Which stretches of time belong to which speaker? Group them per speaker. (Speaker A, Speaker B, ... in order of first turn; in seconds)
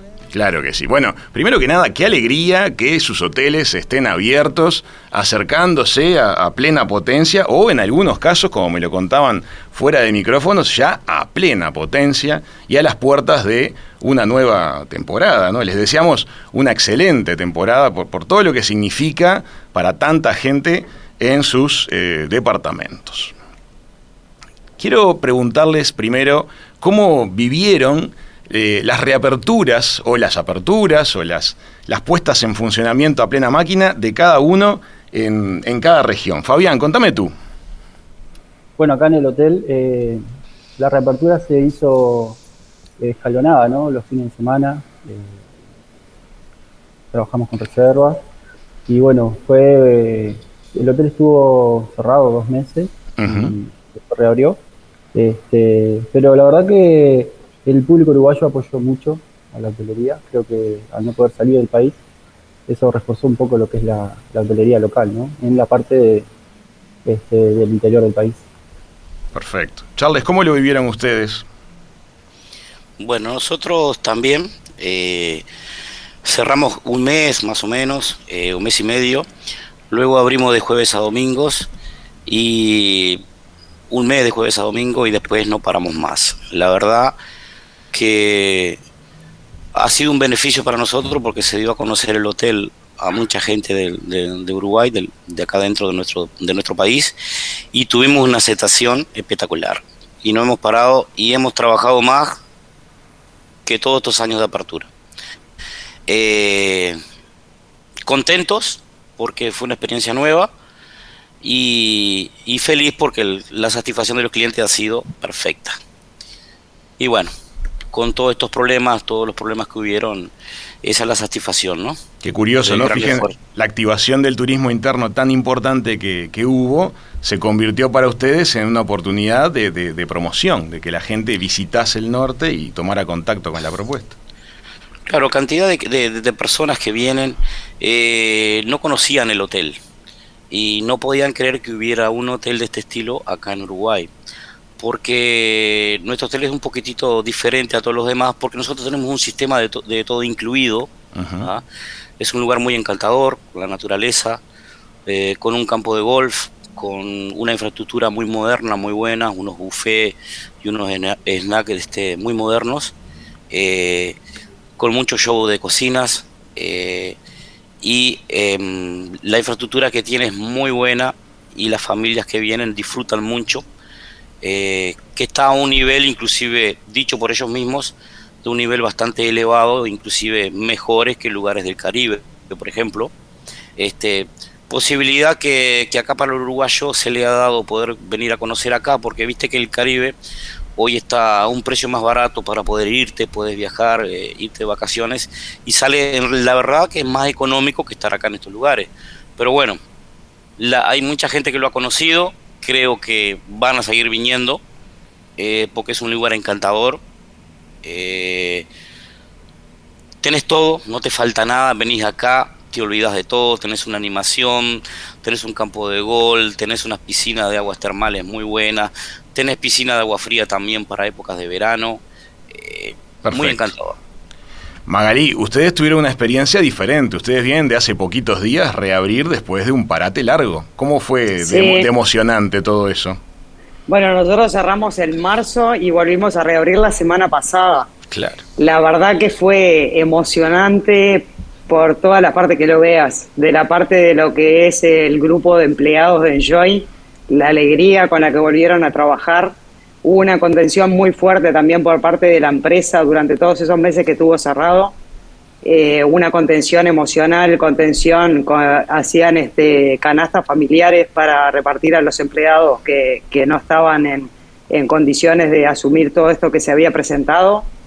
Speaker A: 0.3-23.4, 24.8-37.3, 53.2-53.5, 69.3-71.5, 122.2-134.2, 151.2-151.5, 223.2-223.7, 224.9-233.2, 238.1-238.4
Speaker B: 38.8-40.2, 40.8-42.4, 43.0-45.4, 47.1-48.2, 48.9-54.6, 55.1-62.0, 62.7-66.3, 67.0-68.5
Speaker C: 73.0-75.4, 76.2-79.3, 79.9-81.7, 82.3-83.2, 83.9-87.2, 87.9-88.8, 89.8-97.1, 97.7-102.4, 103.7-104.9, 106.1-107.0, 108.1-110.5, 111.4-115.8, 117.0-117.3, 117.9-120.3, 120.8-122.0, 122.6-123.3, 135.1-139.8, 140.5-144.1, 144.8-150.9, 152.2-154.4, 155.1-162.9, 163.5-164.2, 164.8-167.2, 167.8-173.6, 174.4-183.1, 183.8-190.2, 190.8-199.8, 200.6-204.6, 205.4-207.0, 207.8-208.7, 210.2-224.0
Speaker D: 231.4-231.9, 233.9-237.9, 238.6-255.0, 255.6-267.7